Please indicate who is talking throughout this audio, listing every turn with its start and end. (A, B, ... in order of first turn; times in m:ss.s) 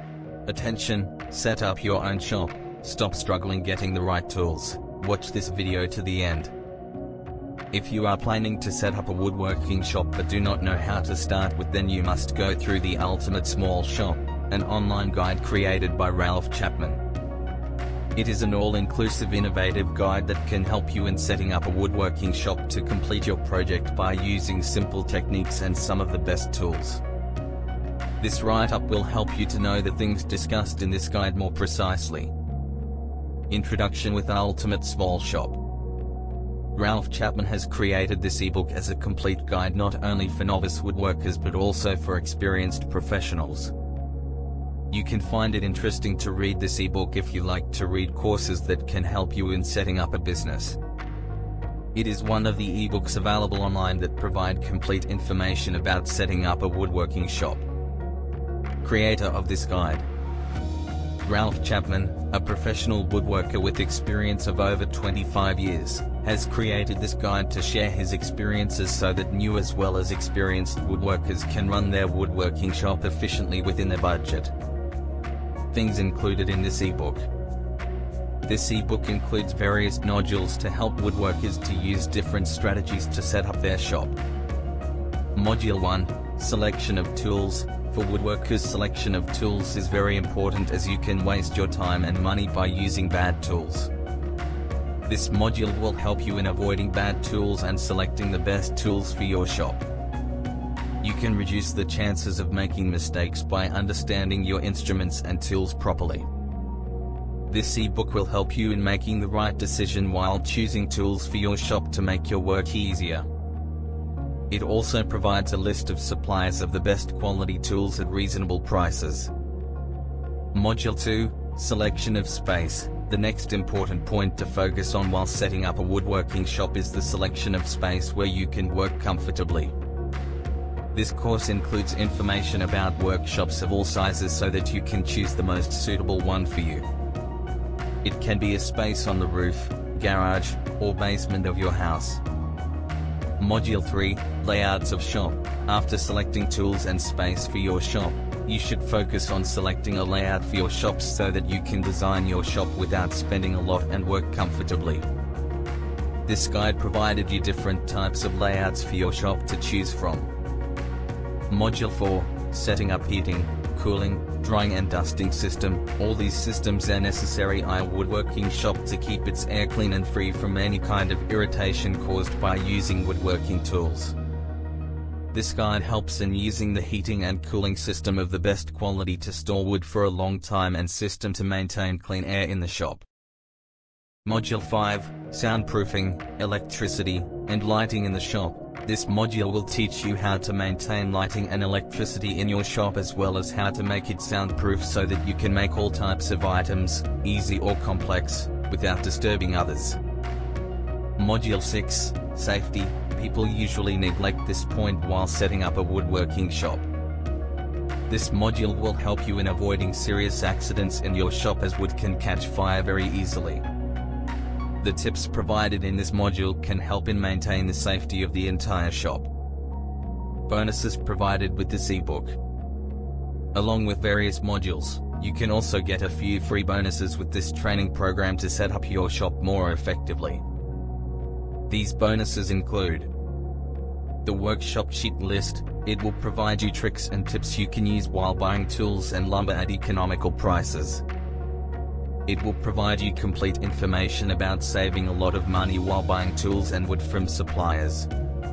0:00.4-0:06.5 A
0:07.7-0:17.0 A
0:18.2-0:27.0 A
0:28.2-0:32.3 A
0:33.5-0:35.6 A
0:36.7-0:43.7 A
0:44.9-0:50.8 A
0:51.9-0:57.6 A
0:58.8-1:00.1 A
1:01.2-1:14.5 A
1:15.7-1:17.3 A
1:18.4-1:24.2 A
1:25.3-1:33.9 A
1:35.0-1:39.8 A
1:41.0-1:46.3 A
1:47.5-1:53.3 A
1:54.5-1:59.3 A
2:00.5-2:09.8 A
2:10.9-2:16.9 A
2:18.0-2:22.2 A
2:23.4-2:35.1 A
2:36.2-2:40.3 A
2:41.5-2:54.2 A
2:55.3-3:03.0 A
3:04.2-3:20.0 A
3:21.2-3:26.8 A
3:28.1-3:33.6 A
3:34.8-3:39.3 A
3:40.5-3:42.4 A
3:43.5-3:50.4 A
3:51.7-3:53.1 A
3:54.2-4:01.0 A
4:02.2-4:08.1 A